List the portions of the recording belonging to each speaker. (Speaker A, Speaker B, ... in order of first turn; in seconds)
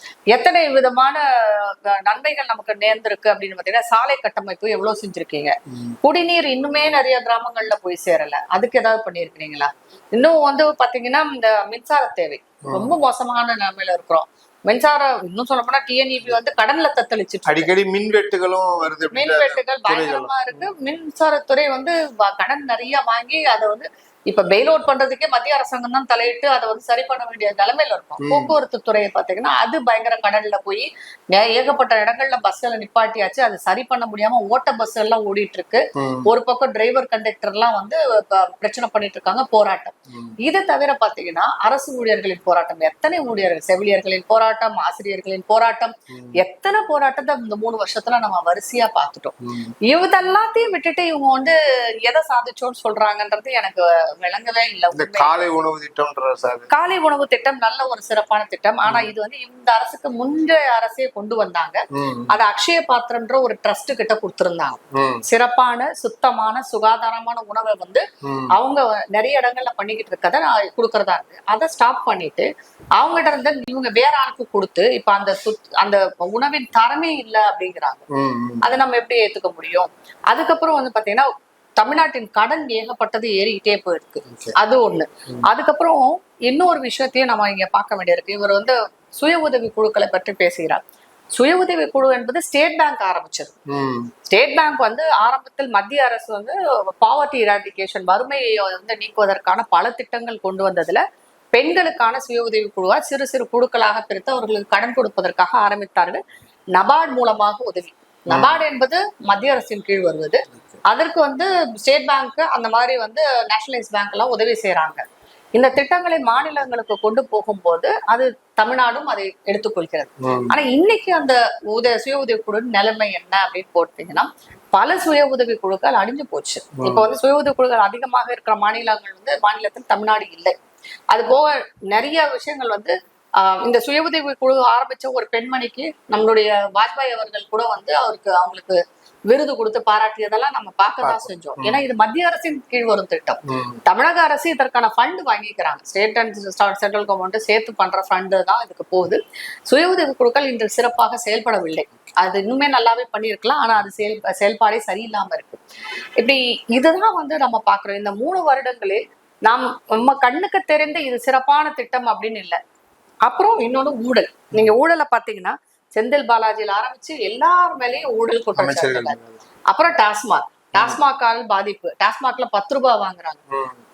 Speaker A: 0.3-17.7, 19.1-49.4, 49.9-55.5, 56.7-78.0, 78.6-90.8, 91.3-93.5, 94.3-101.0, 101.5-106.2, 106.8-115.0, 115.6-130.6, 131.1-155.6, 156.2-162.6, 163.3-169.2, 169.7-173.4
Speaker B: 5.7-6.0, 12.7-12.9, 17.5-20.7, 28.2-28.5, 36.0-36.3, 40.1-40.4, 49.4-49.7, 54.9-56.7, 58.9-59.1, 61.9-62.4, 64.9-65.2, 68.2-68.5, 78.1-78.7, 84.3-84.5, 93.7-94.1, 108.3-108.6, 120.2-120.6, 126.8-127.0, 141.0-141.8, 143.5-143.8, 168.6-169.4, 173.5-173.8